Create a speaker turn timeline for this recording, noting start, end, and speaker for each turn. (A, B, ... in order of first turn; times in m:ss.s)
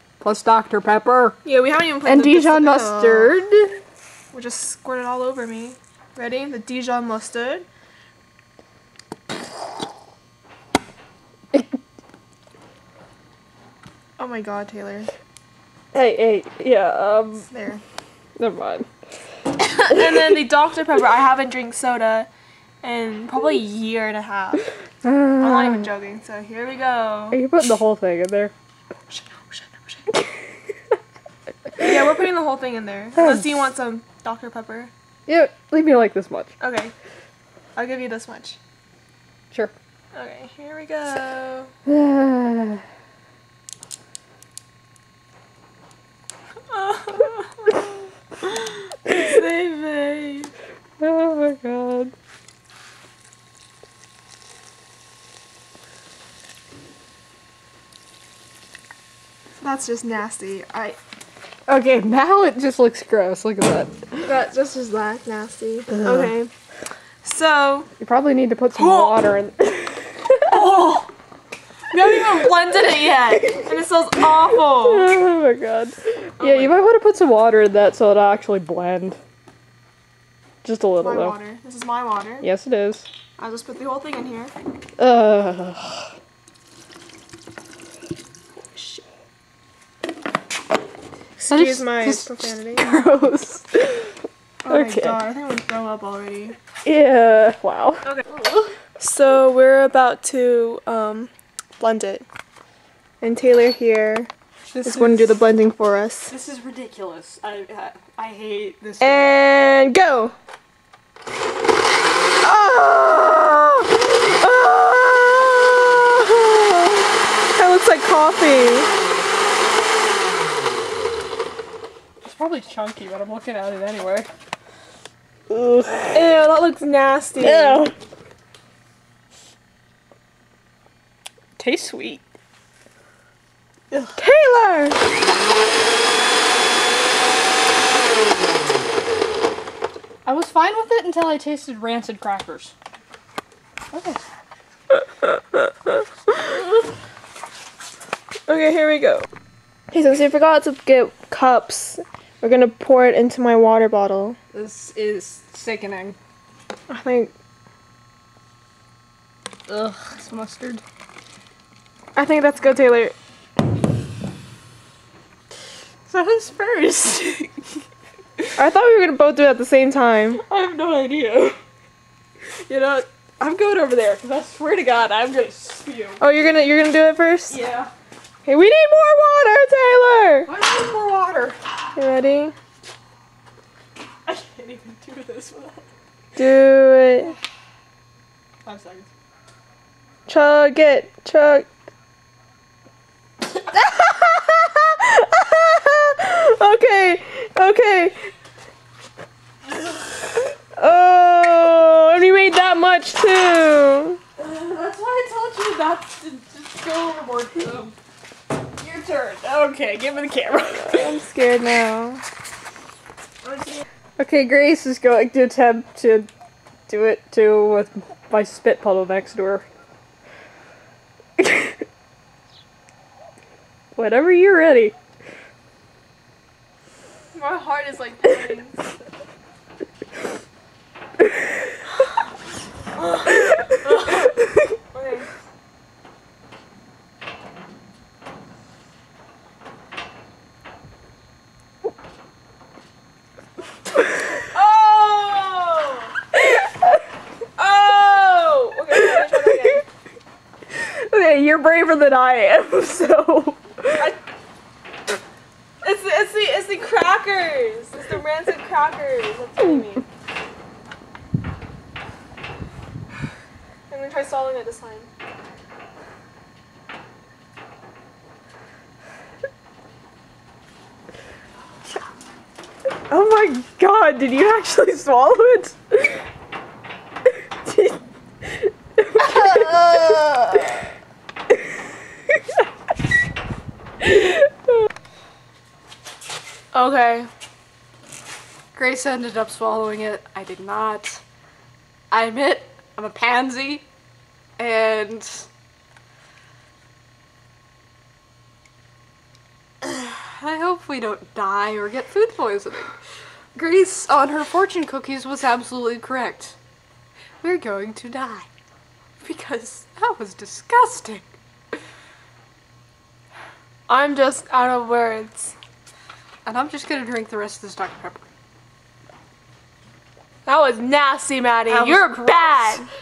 0:00.2-0:01.4 A
0:01.4-0:03.3 B
0:02.1-0:03.8 A
0:04.3-0:07.7 B
0:14.2-0:15.1 B
0:15.9-0:17.5 A
0:17.4-0:17.8 B
0:18.4-0:18.9 A
0:19.6-0:22.3 B
0:20.0-0:20.3 A
0:22.8-0:24.7 B
0:25.0-0:25.9 A
0:25.4-0:27.4 B
0:27.3-0:28.5 A
0:29.1-0:30.1 B
0:31.8-0:34.9 B
0:33.2-0:33.5 A
0:35.3-0:36.5 A
0:36.6-0:36.9 B
0:37.8-0:38.6 B
0:40.1-0:41.7 B
0:41.9-0:42.8 A
0:46.7-0:47.9 B
0:48.4-0:50.5 B
0:51.0-0:52.1 A
0:59.6-1:01.0 B
1:01.7-1:04.2 A
1:04.2-1:06.5 B
1:06.0-1:06.3 A
1:07.2-1:07.9 B
1:08.0-1:10.9 A
1:08.7-1:09.2 B
1:10.5-1:11.1 B
1:11.9-1:15.1 B
1:13.2-1:13.7 A
1:14.5-1:19.2 A
1:16.4-1:16.8 B
1:20.6-1:21.4 A
1:21.0-1:22.5 B
1:22.4-1:23.1 A
1:23.4-1:24.5 B
1:25.0-1:26.1 A
1:28.6-1:29.0 B
1:31.4-1:32.9 B
1:31.5-1:34.1 A
1:34.6-1:36.6 B
1:34.7-1:35.2 A
1:36.8-1:38.7 A
1:39.0-1:42.2 B
1:43.2-1:44.3 B
1:44.7-1:45.4 A
1:44.8-1:46.3 B
1:46.3-1:49.4 A
1:49.0-1:50.3 B
1:52.6-1:53.6 B
1:54.4-1:55.4 B
1:56.1-1:56.5 B
1:57.6-1:58.9 B
2:02.2-2:04.3 A
2:05.5-2:06.3 A
2:06.1-2:07.8 B
2:07.4-2:07.9 A
2:11.6-2:12.2 A
2:13.9-2:14.2 A
2:14.2-2:15.0 B
2:20.2-2:22.7 A
2:23.9-2:24.2 A
2:24.9-2:26.6 B
2:28.5-2:29.3 B
2:29.9-2:34.4 B
2:34.5-2:36.2 A
2:36.9-2:37.3 B
2:39.7-2:40.8 A
2:42.2-2:43.2 B
2:46.1-2:47.7 A
2:48.6-2:50.4 B
2:50.4-2:51.6 A
2:52.6-2:56.2 A
2:56.2-2:57.6 B
2:57.5-2:57.9 A
2:58.4-3:00.5 B
3:00.5-3:01.6 A
3:02.0-3:02.6 B
3:04.2-3:05.9 A
3:06.4-3:07.4 B
3:08.6-3:09.1 A
3:10.3-3:11.7 B
3:13.7-3:18.3 B
3:20.8-3:24.2 B
3:24.4-3:28.0 A
3:28.8-3:31.1 A
3:30.8-3:32.2 B
3:33.4-3:33.8 B
3:34.2-3:36.3 A
3:36.9-3:39.7 A
3:41.4-3:41.7 A
3:44.0-3:44.9 A
3:47.3-3:48.8 B
3:53.0-3:54.4 B
3:54.9-3:55.4 B
4:04.4-4:06.2 B
4:06.3-4:07.0 A
4:07.6-4:09.8 B
4:08.9-4:09.8 A
4:10.7-4:14.1 A
4:15.8-4:20.0 B
4:23.9-4:25.1 B
4:33.1-4:36.2 A
4:37.7-4:38.0 A
4:39.0-4:40.8 A
4:44.0-4:44.4 A
4:46.7-4:47.3 B
4:48.7-4:51.2 A
4:52.1-4:53.8 A
4:54.6-4:55.5 A
4:59.8-5:03.0 A
5:03.6-5:06.6 A
5:07.4-5:08.5 A
5:09.2-5:11.3 A
5:13.9-5:15.6 B
5:16.5-5:18.2 A
5:20.5-5:22.8 B
5:21.7-5:22.8 A